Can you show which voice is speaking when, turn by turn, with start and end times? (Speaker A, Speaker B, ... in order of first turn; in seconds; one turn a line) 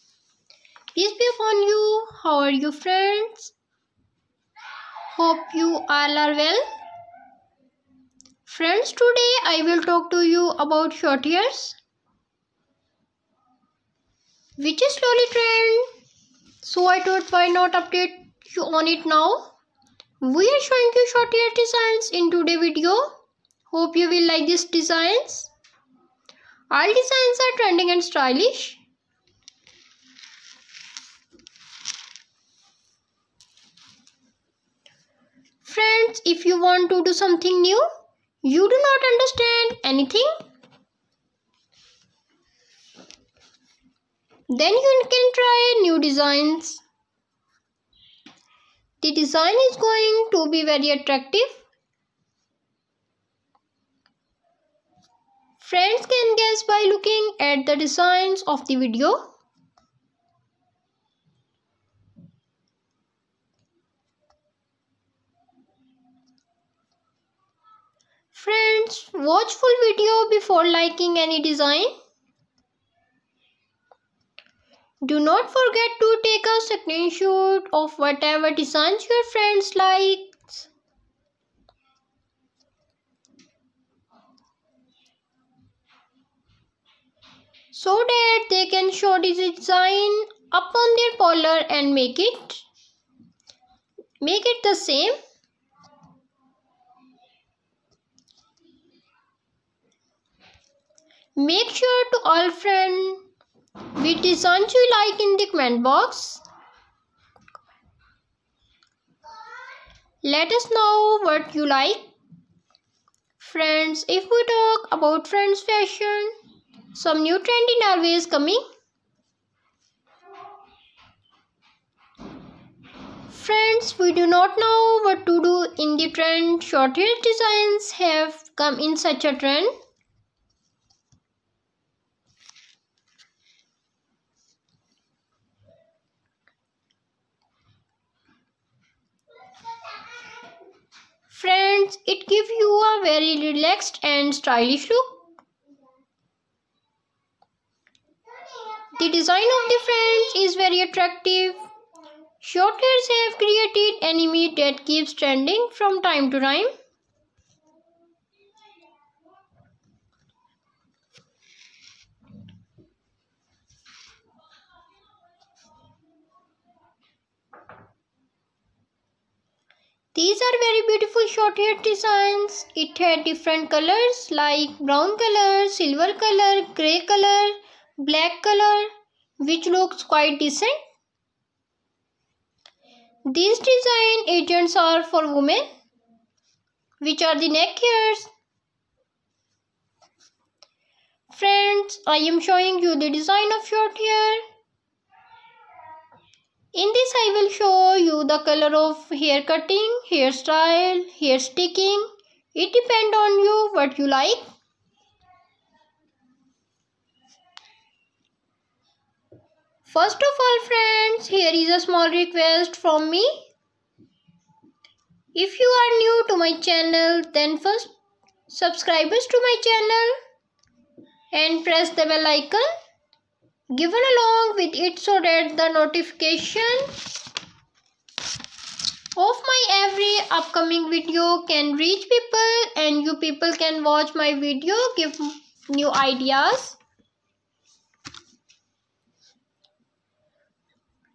Speaker A: 0.9-3.5
Speaker A: 5.1-6.6
Speaker A: 8.4-11.8
Speaker A: 14.6-15.9
Speaker A: 16.6-19.5
Speaker A: 20.2-23.1
Speaker A: 23.7-25.5
Speaker A: 26.7-28.8
Speaker A: 35.6-37.9
Speaker A: 38.4-40.4
Speaker A: 44.5-46.8
Speaker A: 49.0-51.6
Speaker A: 55.6-59.3
Speaker A: 68.3-71.9
Speaker A: 75.0-80.7
Speaker A: 87.7-92.6
Speaker A: 94.2-95.2
Speaker A: 101.3-103.2
Speaker A: 103.9-106.4
Speaker A: 110.2-112.1
Speaker A: 113.4-116.3
Speaker A: 116.9-118.6
Speaker A: 123.3-129.7
Speaker A: 141.3-145.2
Speaker A: 148.9-151.6
Speaker A: 152.4-156.7
Speaker A: 170.1-180.8
Speaker A: 183.2-185.6
Speaker A: 187.0-188.3
Speaker A: 191.3-194.4
Speaker A: 196.7-204.4
Speaker A: 209.8-213.5
Speaker A: 215.3-217.9
Speaker A: 218.5-220.2
Speaker A: 221.3-222.7
Speaker A: 223.7-227.0
Speaker A: 229.2-236.8